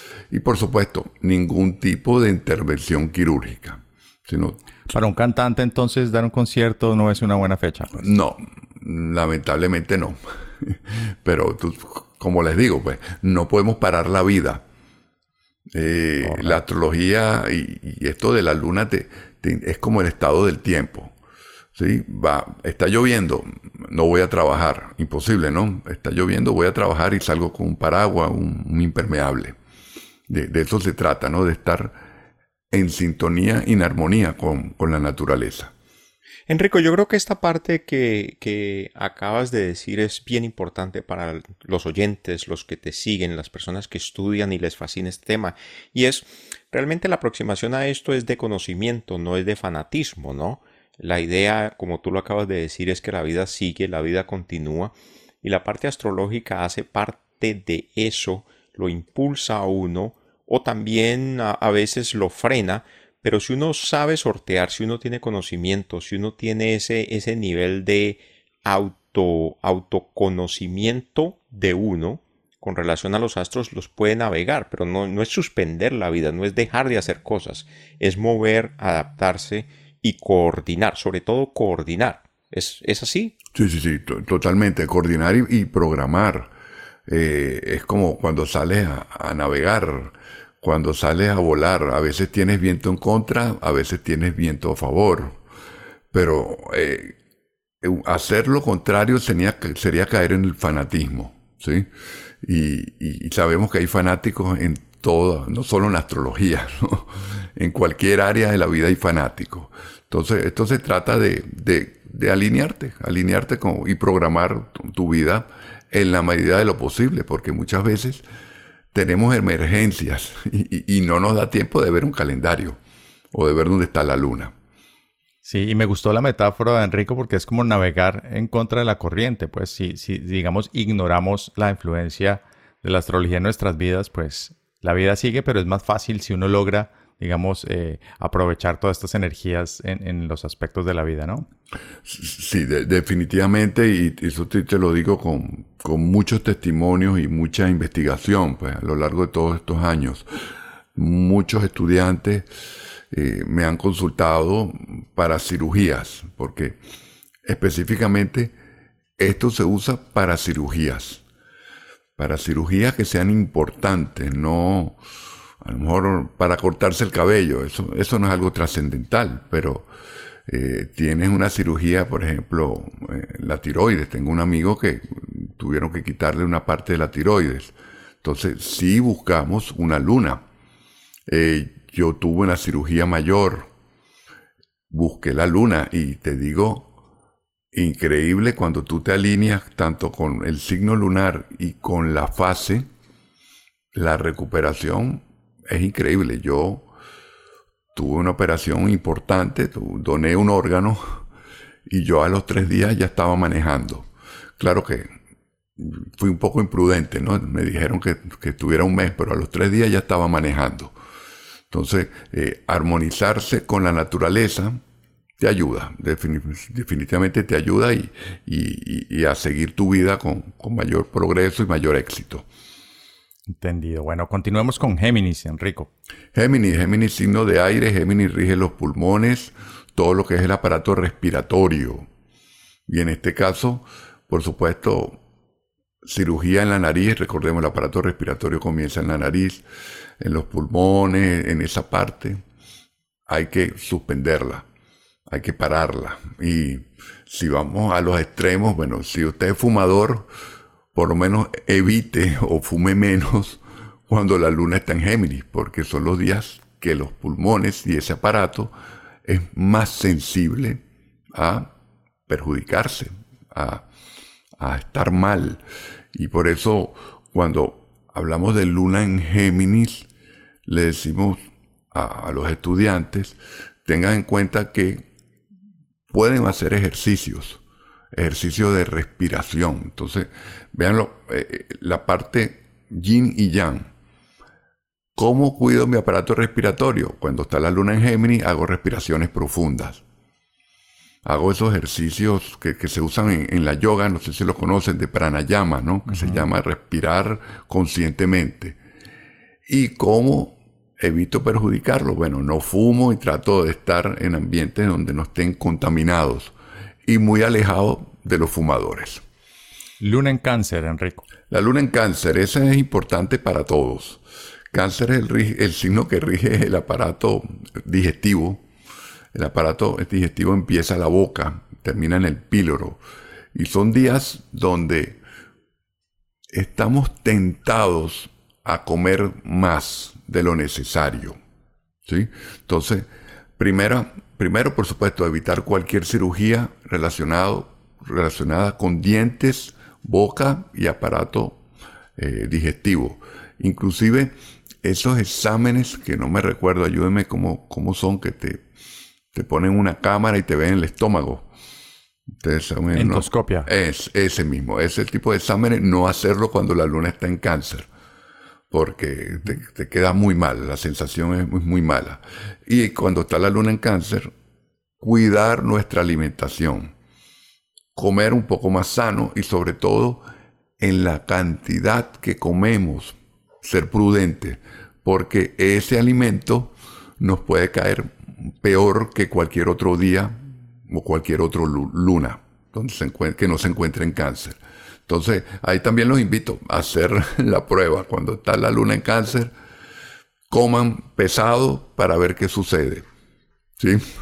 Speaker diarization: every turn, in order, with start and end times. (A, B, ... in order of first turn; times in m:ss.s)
0:00.3-0:04.6 A
0:04.9-0:08.0 B
0:08.0-0:14.6 A
0:15.7-0:21.1 A
0:16.3-0:16.6 B
0:21.7-0:29.6 A
0:30.3-0:32.0 A
0:32.7-0:35.7 A
0:36.5-1:23.3 C
1:23.5-1:26.5 A
1:27.1-1:35.4 A
1:36.1-1:37.2 A
1:37.8-1:41.9 A
1:42.4-1:58.2 A
1:58.9-2:02.8 A
2:03.3-2:04.5 A
2:05.4-2:21.4 B
2:22.0-2:30.2 A
2:30.9-2:32.5 A
2:33.1-2:36.8 A
2:37.4-2:38.5 A
2:39.2-2:41.2 A
2:42.2-2:45.0 A
2:45.6-2:49.9 A
2:50.5-3:00.4 A
3:01.3-3:03.7 A
3:04.9-3:06.9 A
3:07.7-3:12.9 A
3:13.9-3:16.9 A
3:17.9-3:21.2 A
3:21.9-3:24.1 A
3:24.6-3:25.1 A
3:25.8-3:30.9 A
3:31.7-3:34.8 A
3:35.4-3:42.4 A
3:43.5-3:45.9 B
3:46.3-3:52.1 A
3:52.9-3:55.2 A
3:56.0-3:59.6 A
4:00.2-4:02.4 A
4:03.3-4:04.6 A
4:05.3-4:10.3 A
4:10.9-4:18.7 A
4:19.2-4:20.8 A
4:21.3-4:21.7 A
4:22.3-4:23.8 A
4:24.6-4:25.6 A
4:26.1-4:30.1 A
4:30.6-4:35.0 A
4:36.1-4:37.6 A
4:38.1-4:43.9 A
4:45.1-4:50.0 A
4:51.2-4:58.8 A
4:56.1-4:56.4 B
4:59.7-5:06.5 A
5:07.0-5:09.2 A
5:10.0-5:11.2 B
5:11.5-5:14.2 A
5:14.7-5:18.6 A
5:19.3-5:23.0 A
5:23.5-5:25.2 A
5:26.5-5:31.4 A
5:32.0-5:41.6 A
5:42.2-5:48.6 A
5:49.3-5:51.5 A
5:52.4-5:57.9 A
5:52.9-5:53.7 B
5:58.7-6:04.3 A
6:05.0-6:06.9 A
6:07.9-6:10.2 A
6:10.8-6:29.5 A
6:30.5-6:33.0 A
6:33.8-6:34.1 A